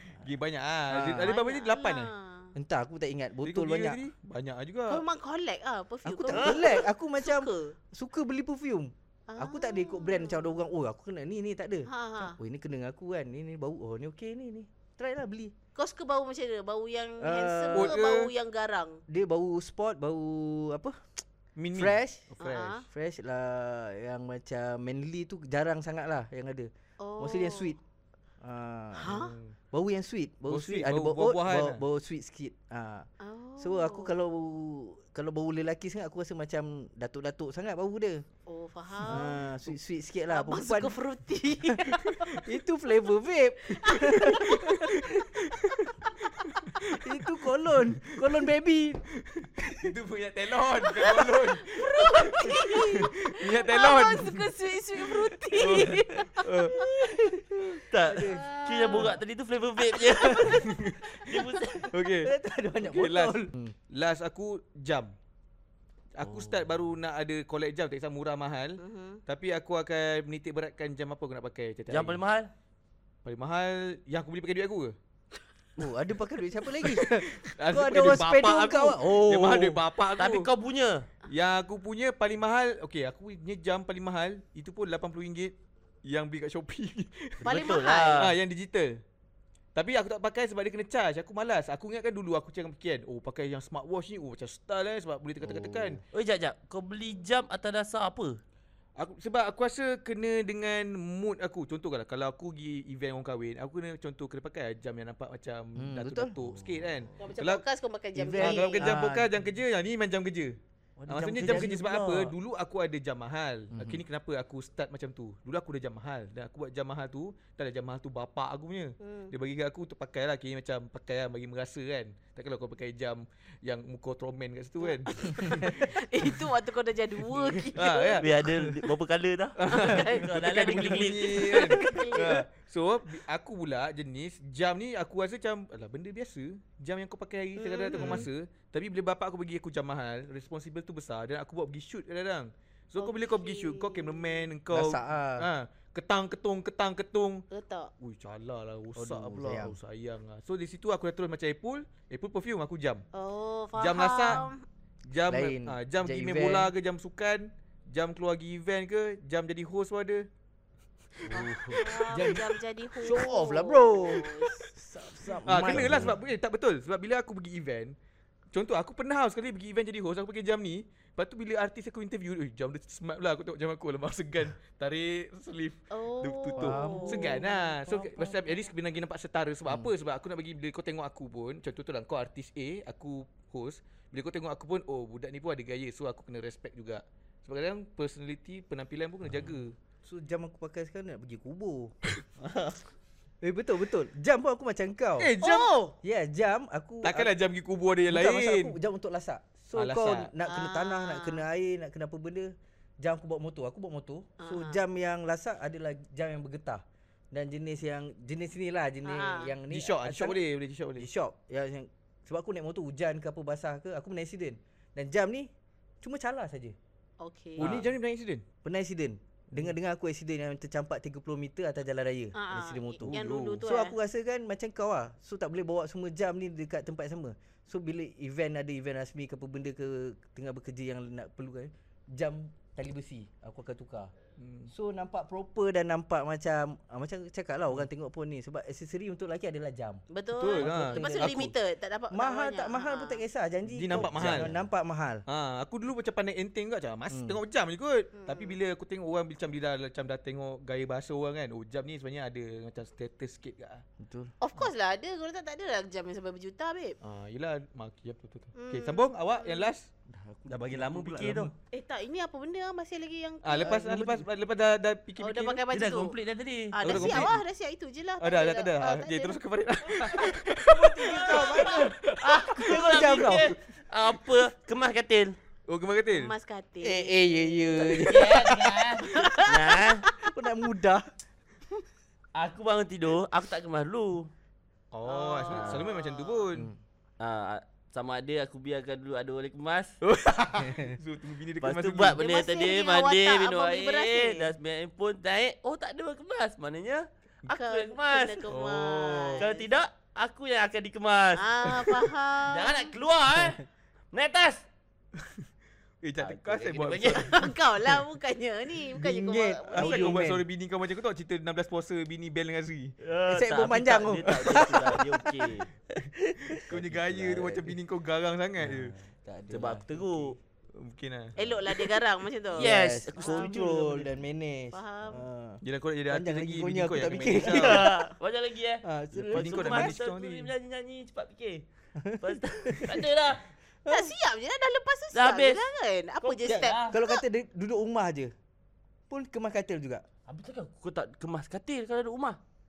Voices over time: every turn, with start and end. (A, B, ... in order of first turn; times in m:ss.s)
0:00.2-0:02.1 A
0:00.9-0:01.4 B
0:01.2-0:02.5 C
0:02.6-0:04.0 B
0:03.4-0:05.0 A
0:04.9-0:07.8 C
0:06.0-0:15.5 B
0:06.3-0:06.7 D
0:09.3-0:10.5 C
0:11.9-0:12.4 C
0:15.8-0:19.0 C
0:17.2-0:18.0 B
0:17.7-0:18.3 A
0:19.1-0:21.2 B
0:21.6-0:22.8 A
0:21.7-0:22.3 B
0:22.4-0:22.9 C
0:22.9-0:27.8 B
0:27.0-0:27.8 C
0:28.4-0:33.1 B
0:29.0-0:29.4 C
0:29.2-0:29.5 A
0:30.5-0:31.8 A
0:33.2-0:34.2 C
0:33.6-0:38.2 B
0:38.5-0:39.4 C
0:39.1-0:45.2 B
0:40.3-0:42.4 C
0:42.0-0:42.4 A
0:43.7-0:44.9 C
0:44.4-0:47.1 A
0:46.0-0:46.8 C
0:46.8-0:49.0 B
0:49.3-0:56.8 A
0:49.6-0:49.9 B
0:50.9-0:57.1 C
0:56.8-0:58.5 B
0:57.9-1:01.9 D
0:58.3-0:59.2 C
0:59.8-1:01.9 C
1:00.7-1:01.0 A
1:01.9-1:05.2 A
1:02.2-1:03.8 B
1:06.2-1:12.2 A
1:06.2-1:06.8 D
1:08.8-1:09.2 C
1:11.9-1:12.5 D
1:13.2-1:15.0 A
1:15.8-1:19.8 B
1:16.8-1:20.5 A
1:20.2-1:21.1 D
1:21.3-1:27.5 A
1:27.4-1:28.3 C
1:27.4-1:28.4 D
1:28.2-1:29.0 A
1:29.8-1:36.0 A
1:35.4-1:36.0 B
1:36.1-1:38.4 D
1:39.0-1:47.6 A
1:45.8-1:46.4 B
1:47.2-1:48.9 C
1:48.2-1:49.3 B
1:48.4-1:50.6 A
1:51.0-1:52.3 B
1:51.1-2:06.0 A
1:51.4-1:52.1 D
1:53.7-1:54.0 B
1:59.0-1:59.3 C
2:04.8-2:08.3 C
2:07.4-2:08.6 A
2:08.2-2:11.9 D
2:09.6-2:27.4 A
2:09.7-2:12.5 C
2:17.6-2:18.3 C
2:17.9-2:18.3 B
2:23.0-2:24.5 C
2:24.7-2:25.5 B
2:27.5-2:27.9 C
2:28.0-2:33.1 A
2:29.0-2:29.8 B
2:33.1-2:34.6 C
2:33.8-2:34.5 A
2:35.1-2:40.3 A
2:35.3-2:36.7 B
2:41.3-2:42.1 A
2:41.3-2:41.8 D
2:41.3-2:44.7 C
2:41.4-2:46.2 B
2:45.5-2:48.0 A
2:45.7-2:46.1 D
2:48.5-3:09.8 A
2:55.9-2:57.7 C
2:56.6-2:58.4 B
3:09.4-3:12.0 B
3:12.4-3:12.8 D
3:13.4-3:15.3 B
3:15.2-3:15.7 A
3:15.4-3:16.0 C
3:16.0-3:17.3 B
3:17.0-3:18.8 A
3:18.0-3:30.4 B
3:19.8-3:20.3 A
3:20.4-3:21.4 C
3:24.4-3:24.8 C
3:29.0-3:29.5 C
3:29.7-3:31.1 A
3:31.0-3:35.5 B
3:36.0-3:36.8 B
3:37.2-3:37.7 C
3:37.6-3:37.9 B
3:37.6-3:38.5 A
3:38.6-3:54.1 B
3:42.4-3:44.0 C
3:43.1-3:43.6 A
3:54.4-3:54.7 A
3:54.7-4:01.5 B
4:00.1-4:03.2 C
4:00.4-4:01.5 A
4:02.1-4:05.2 B
4:03.7-4:04.6 A
4:05.3-4:13.8 A
4:07.1-4:07.4 B
4:08.2-4:08.6 C
4:14.0-4:14.3 B
4:14.4-4:17.0 C
4:17.0-4:19.9 A
4:18.6-4:19.7 C
4:20.1-4:21.5 B
4:20.5-4:21.5 D
4:21.7-4:23.8 C
4:23.4-4:25.6 A
4:23.6-4:24.3 B
4:25.2-4:26.2 C
4:25.7-4:27.2 D
4:26.7-4:29.4 C
4:26.8-4:27.4 A
4:28.2-4:32.8 A
4:30.6-4:32.0 B
4:31.1-4:35.4 D
4:32.6-4:33.6 B
4:35.7-4:36.3 A
4:36.1-4:38.1 C
4:36.8-4:38.9 B
4:37.9-4:40.1 D
4:39.0-4:40.3 C
4:40.2-4:41.0 B
4:42.4-4:44.3 D
4:44.9-4:46.7 A
4:45.1-4:46.5 C
4:45.5-4:45.9 D
4:46.5-4:46.8 B
4:47.2-4:50.0 D
4:50.0-4:52.2 A
4:50.6-4:51.0 B
4:51.6-4:58.4 D
4:52.2-4:54.5 C
4:57.5-4:59.7 C
4:58.5-4:59.5 A
4:59.4-5:01.9 D
5:01.4-5:02.9 C
5:02.5-5:04.7 D
5:06.0-5:07.5 A
5:06.2-5:07.5 D
5:07.2-5:10.2 C
5:09.0-5:10.4 B
5:09.7-5:13.0 A
5:13.0-5:15.7 D
5:13.3-5:15.4 B
5:14.4-5:14.9 A
5:16.0-5:17.8 B
5:16.6-5:18.9 A
5:18.6-5:20.4 B
5:19.5-5:20.4 D
5:20.7-5:21.4 A
5:21.4-5:22.7 C
5:22.5-5:28.1 B
5:22.6-5:24.2 D
5:24.7-5:25.2 C
5:25.6-5:28.0 A
5:27.1-5:31.6 D
5:28.8-5:29.9 B
5:29.3-5:30.5 A
5:32.0-5:33.0 B
5:32.2-5:33.4 D
5:33.8-5:34.1 B
5:33.9-5:37.2 C
5:35.1-5:35.6 D
5:36.2-5:37.0 D
5:36.9-5:38.3 B
5:39.1-5:40.0 B
5:40.3-5:42.4 D